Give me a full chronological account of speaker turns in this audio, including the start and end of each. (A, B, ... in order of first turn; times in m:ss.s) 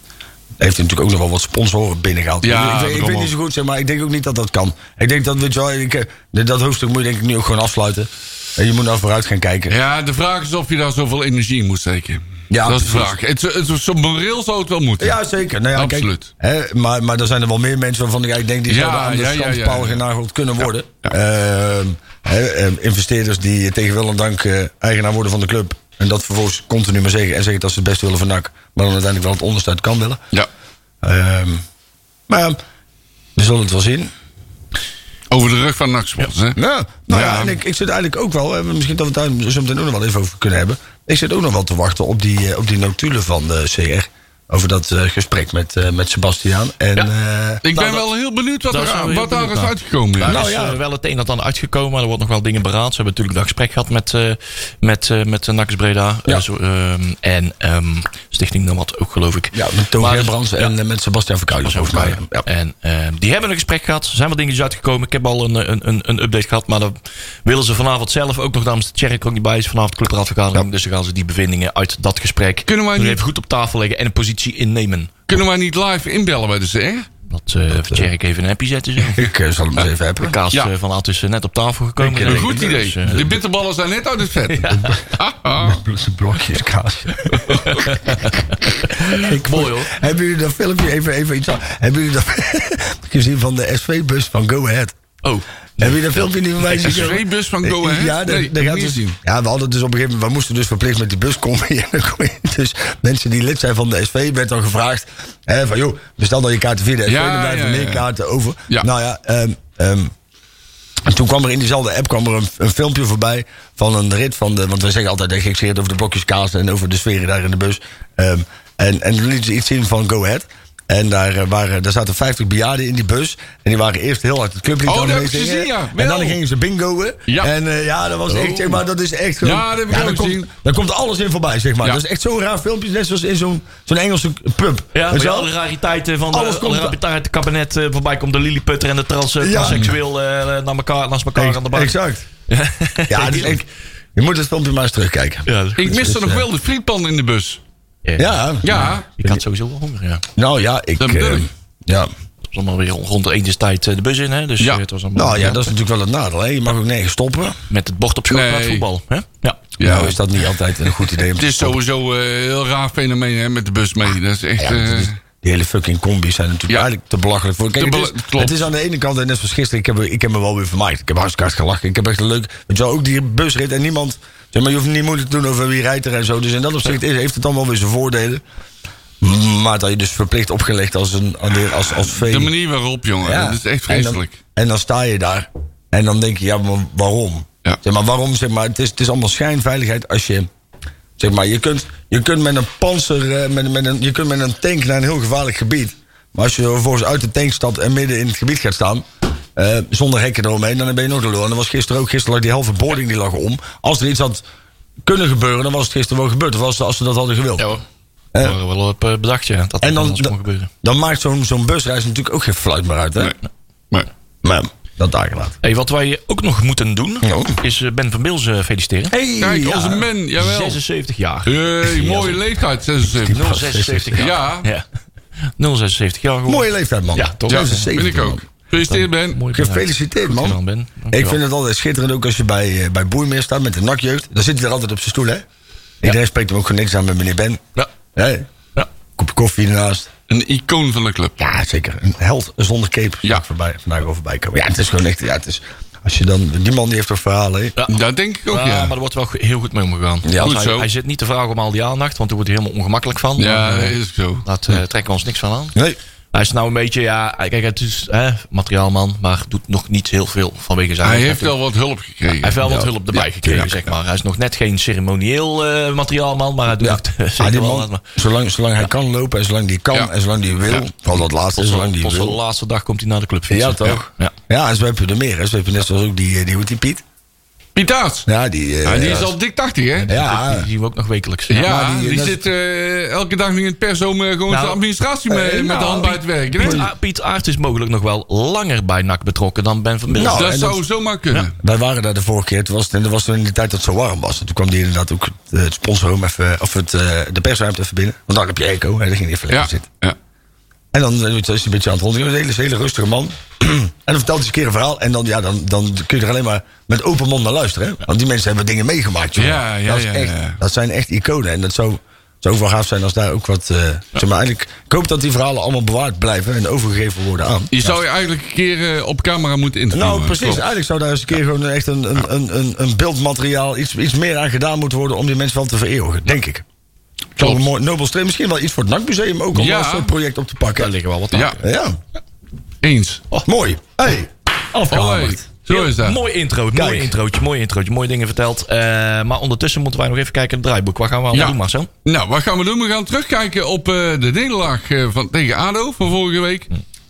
0:00.6-0:09.8 A
0:02.4-0:03.3 B
0:09.7-0:15.2 B
0:12.5-0:13.1 A
0:15.0-0:30.2 A
0:15.7-0:16.3 B
0:18.7-0:20.0 B
0:31.0-0:31.6 A
0:32.3-0:32.6 A
0:33.4-0:34.1 A
0:35.3-0:36.6 B
0:36.6-0:48.0 A
0:37.1-0:37.6 B
0:47.6-0:50.4 B
0:48.7-1:00.8 C
0:50.2-0:50.8 A
0:59.5-1:02.4 A
1:01.6-1:15.2 C
1:12.7-1:13.2 B
1:15.3-1:17.1 B
1:17.3-1:19.3 C
1:19.1-1:20.4 A
1:20.2-1:23.3 C
1:22.0-1:22.8 A
1:22.2-1:25.8 B
1:24.5-1:25.0 C
1:25.6-1:27.6 A
1:27.4-1:30.0 C
1:27.5-1:27.8 B
1:29.0-1:35.0 A
1:35.2-1:37.2 C
1:35.8-1:50.1 A
1:36.8-1:39.2 B
1:47.1-1:48.0 B
1:51.1-2:15.5 A
2:04.8-2:06.4 B
2:07.3-2:07.5 B
2:08.3-2:08.7 C
2:09.4-2:10.5 B
2:14.9-2:21.9 C
2:16.3-2:17.0 A
2:19.4-2:19.9 A
2:19.6-2:19.9 B
2:21.4-2:22.3 A
2:22.5-2:23.6 C
2:23.1-2:26.4 A
2:25.5-2:25.9 C
2:25.8-2:27.6 B
2:28.0-2:30.2 C
2:28.2-2:29.4 A
2:28.6-2:29.1 B
2:30.4-2:32.1 A
2:31.0-2:31.4 B
2:32.5-2:35.7 C
2:35.2-2:37.6 A
2:37.7-2:39.8 C
2:38.3-2:38.9 B
2:39.8-2:40.2 B
2:39.8-2:41.8 A
2:41.4-2:45.2 B
2:44.6-2:58.4 A
2:47.8-2:48.7 B
2:59.2-3:02.5 A
3:02.2-3:04.3 B
3:03.2-3:10.5 A
3:11.2-3:24.4 A
3:25.0-3:27.7 A
3:27.6-3:27.8 C
3:28.4-3:30.7 C
3:29.8-3:33.4 A
3:34.4-3:35.6 A
3:35.6-3:39.2 C
3:37.2-3:37.6 A
3:39.1-3:40.1 A
3:39.4-3:40.8 B
3:40.4-3:42.4 C
3:41.5-3:43.5 B
3:43.2-3:44.3 A
3:43.3-3:44.8 C
3:44.2-3:44.7 B
3:45.6-3:47.9 C
3:46.5-3:48.4 A
3:47.5-3:49.4 B
3:48.8-3:51.4 C
3:49.5-3:50.6 A
3:51.1-3:55.4 A
3:56.0-3:57.6 A
3:58.2-3:58.5 A
3:59.2-4:00.1 A
4:00.3-4:01.4 B
4:01.4-4:07.8 A
4:07.9-4:08.9 B
4:08.5-4:15.8 C
4:10.2-4:10.6 A
4:10.4-4:10.9 B
4:13.4-4:14.5 B
4:16.3-4:21.5 C
4:21.0-4:23.9 B
4:22.3-4:28.0 C
4:22.6-4:22.9 A
4:26.8-4:32.4 A
4:31.5-4:34.3 C
4:33.5-4:37.0 A
4:37.8-4:38.3 B
4:38.3-4:39.3 A
4:38.8-4:40.1 B
4:39.0-4:39.3 C
4:40.0-4:41.6 C
4:40.1-4:40.7 A
4:41.5-4:46.9 B
4:41.6-4:42.4 A
4:44.5-4:44.8 C
4:45.3-4:46.9 A
4:46.5-4:50.5 C
4:50.1-4:50.8 A
4:50.3-4:51.5 B
4:51.6-4:59.9 A
4:59.5-5:00.2 B
5:00.9-5:18.0 A
5:09.4-5:10.6 B
5:17.7-5:20.6 B
5:19.9-5:26.6 A
5:27.4-5:30.9 A
5:29.6-5:30.1 B
5:30.8-5:31.6 C
5:31.6-5:32.0 A
5:32.8-5:33.3 B
5:33.4-5:35.4 A
5:34.9-5:36.2 B
5:35.7-5:41.9 C
5:36.7-5:37.1 A
5:41.3-5:46.7 B